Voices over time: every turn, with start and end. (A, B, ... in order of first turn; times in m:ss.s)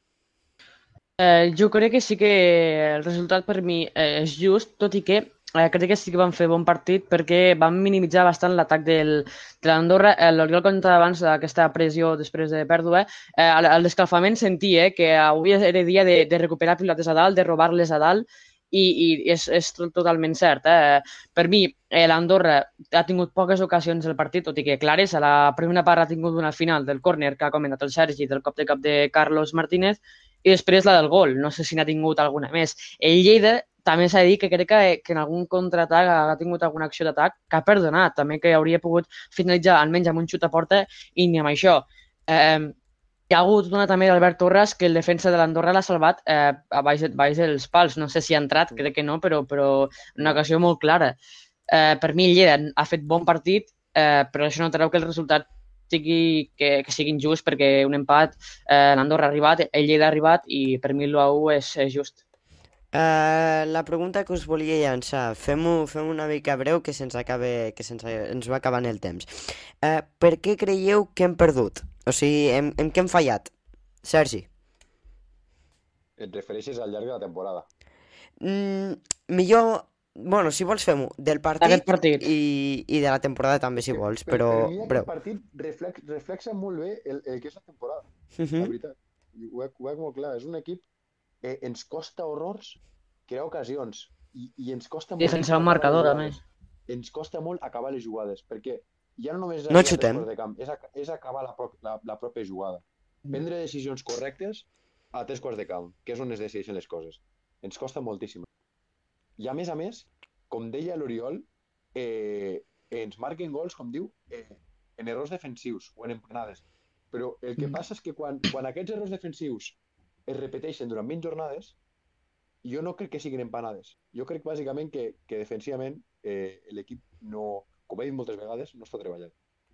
0:01.2-0:42.7 A
0:43.3-0:51.2 A
0:51.7-1:02.2 A
1:02.9-1:13.5 B
1:14.0-1:14.5 B
1:16.2-1:17.6 C
1:18.4-1:25.1 B
1:21.6-1:22.2 A
1:23.8-1:28.0 C
1:28.4-1:28.7 B
1:28.6-1:30.8 C
1:31.4-1:48.5 C
1:35.2-1:36.4 A
1:39.7-1:40.3 B
1:49.4-2:01.8 C
2:02.6-2:09.3 C